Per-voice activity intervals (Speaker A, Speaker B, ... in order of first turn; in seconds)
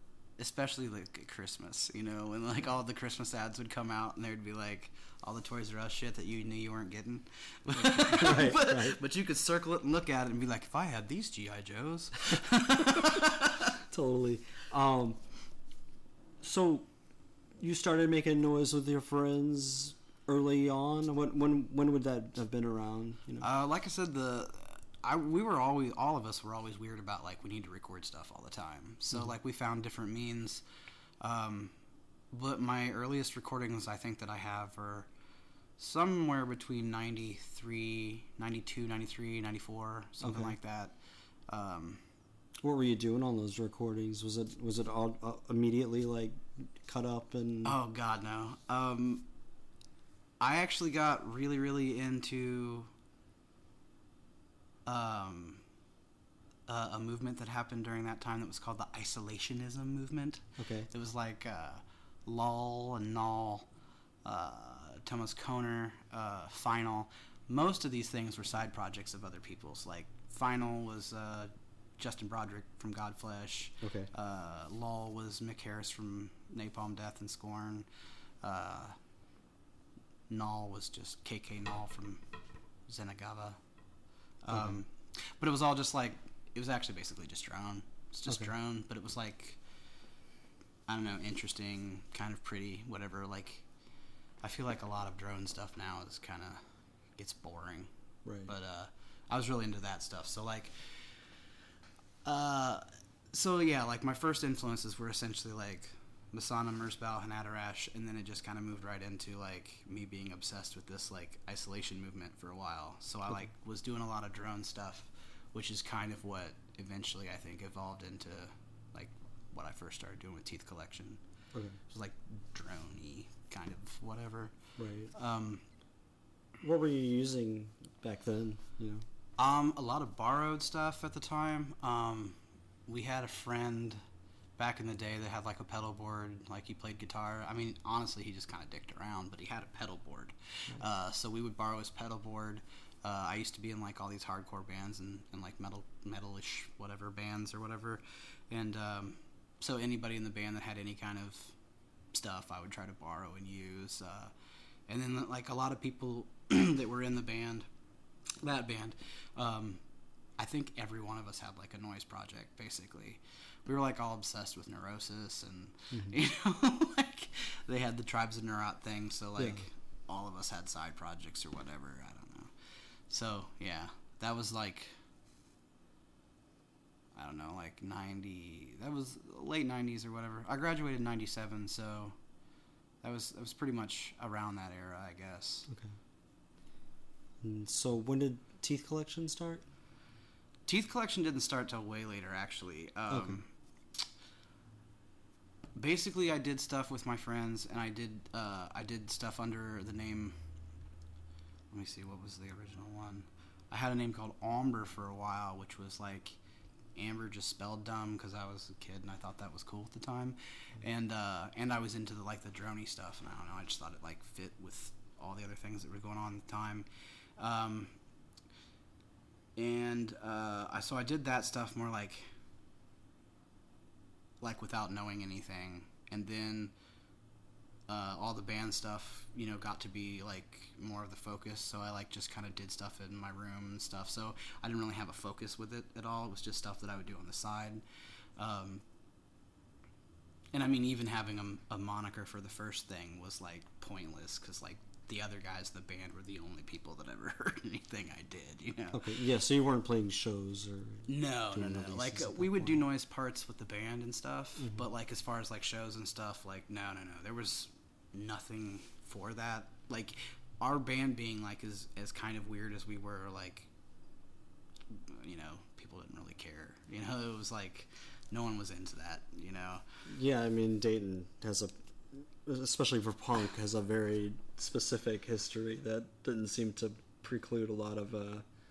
Speaker A: 0.4-13.7, 23.4-30.6, 31.2-31.7, 32.3-35.1, 35.8-40.9, 41.5-42.0, 47.6-49.2, 50.4-52.9, 54.9-55.6, 56.7-63.7, 64.2-77.9, 78.4-79.0, 80.3-82.2, 82.9-83.6, 84.4-89.6, 90.9-93.6, 94.4-96.6, 97.2-97.9, 98.5-101.2, 102.2-121.2, 121.9-124.5, 125.1-125.6, 129.4-134.0, 134.6-151.6, 152.1-154.3, 154.9-157.7, 158.4-159.8, 160.4-172.5, 173.1-175.0, 177.1-182.2, 183.0-185.7, 190.7-193.5, 195.7-200.3, 201.7-206.4, 206.9-216.8, 217.4-218.0, 219.6-222.3, 224.4-226.7, 227.9-237.8, 238.4-238.8, 240.5-249.1, 251.1-263.7, 264.9-269.8
Speaker B: 7.8-9.0, 13.8-15.2, 16.4-16.9, 17.6-23.5, 40.2-40.5, 42.6-47.8, 60.6-60.9, 73.8-74.1, 84.5-84.8, 98.2-98.5, 124.8-125.1, 126.6-129.0, 169.4-169.6, 187.4-189.6, 193.1-193.4, 248.9-252.8, 270.1-278.4